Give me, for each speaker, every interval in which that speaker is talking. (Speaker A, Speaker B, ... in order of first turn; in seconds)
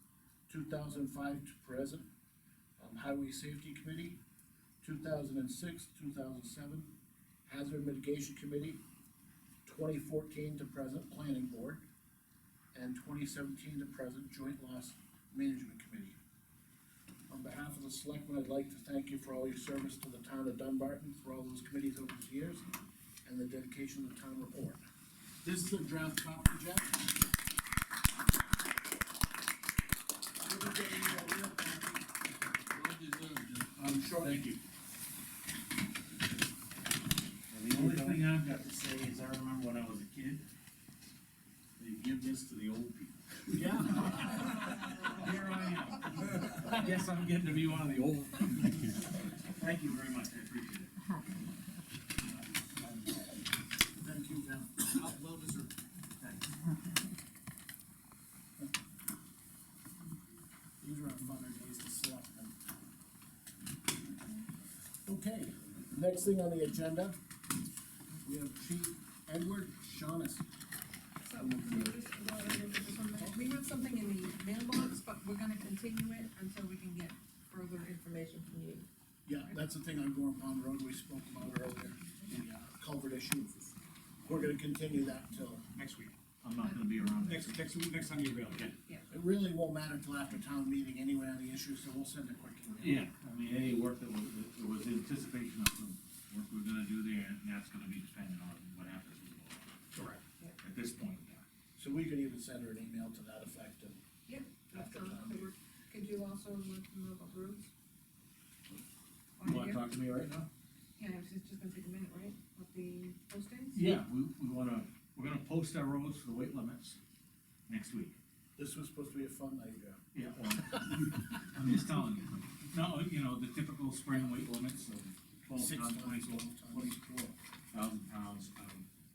Speaker A: 0.5-2.0, 2.8-4.2, 4.8-6.9, 7.5-8.8, 9.6-11.8, 12.7-16.2, 17.3-22.6, 23.2-24.8, 25.4-27.1, 30.4-32.0, 33.8-34.5, 37.7-38.2, 43.5-44.9, 54.0-55.2, 60.8-62.5, 65.0-67.2, 68.2-70.5, 71.4-71.9, 79.2-83.7, 84.2-85.7, 89.1-93.0, 101.8-104.0, 104.7-105.5, 118.6-120.0, 125.5-127.3
Speaker B: 32.7-34.3, 85.8-86.1, 87.2-88.7
Speaker C: 37.5-40.5, 41.8-51.2, 56.2-56.4, 86.4-87.6, 92.8-99.7, 100.6-101.4, 109.4-110.5, 113.7-117.0, 117.7-118.2, 120.1-126.9, 127.7-128.8
Speaker D: 71.2-78.9, 104.3-107.7, 109.4-109.8, 111.0-113.9